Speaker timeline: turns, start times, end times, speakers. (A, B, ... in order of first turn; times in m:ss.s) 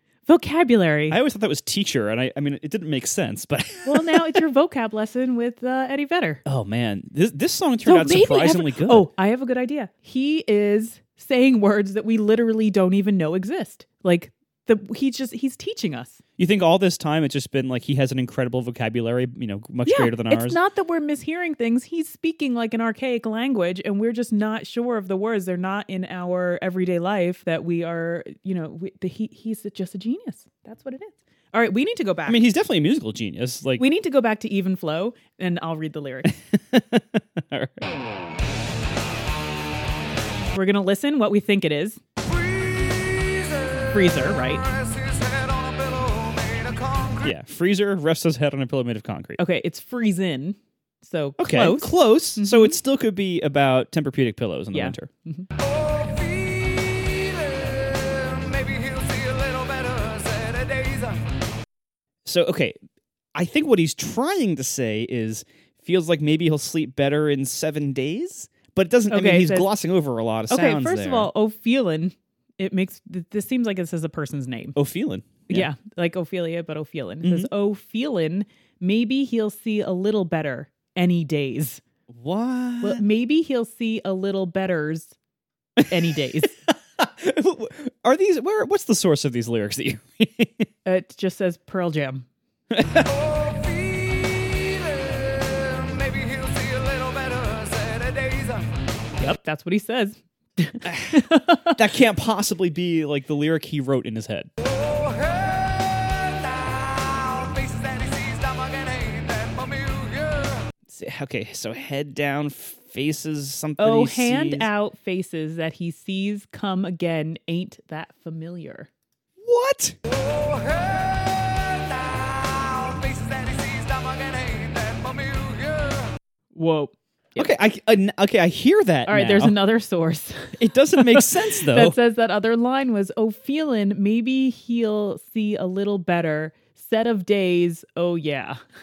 0:00.2-0:01.2 A
0:01.1-0:04.4 B
0:03.8-0:06.4 A
0:06.4-0:09.1 B
0:07.8-0:16.2 A
0:16.4-0:20.6 B
0:19.8-0:32.4 A
0:32.3-0:33.8 B
0:33.8-0:36.3 A
0:36.3-0:37.9 B
0:40.5-0:42.0 A
0:43.9-0:44.7 A
0:47.2-0:49.4 B
0:49.4-0:52.8 A
0:51.4-0:55.1 B
0:54.7-0:55.5 A
1:02.2-1:02.8 B
1:03.3-1:11.3 B
1:09.1-1:09.7 A
1:10.5-1:14.8 A
1:14.7-1:15.7 B
1:15.5-1:21.8 A
1:17.2-1:17.5 B
1:22.1-1:23.0 B
1:22.8-1:25.1 A
1:25.9-1:26.5 A
1:26.7-1:30.7 B
1:30.8-1:32.3 A
1:32.7-1:33.1 B
1:39.2-1:41.8 A
1:40.8-1:41.2 B
1:41.7-1:44.5 B
1:50.9-1:54.7 B
1:53.8-1:58.9 A
1:59.4-2:00.0 B
2:06.5-2:07.5 A
2:07.4-2:09.5 B
2:09.0-2:18.6 A
2:10.6-2:12.0 B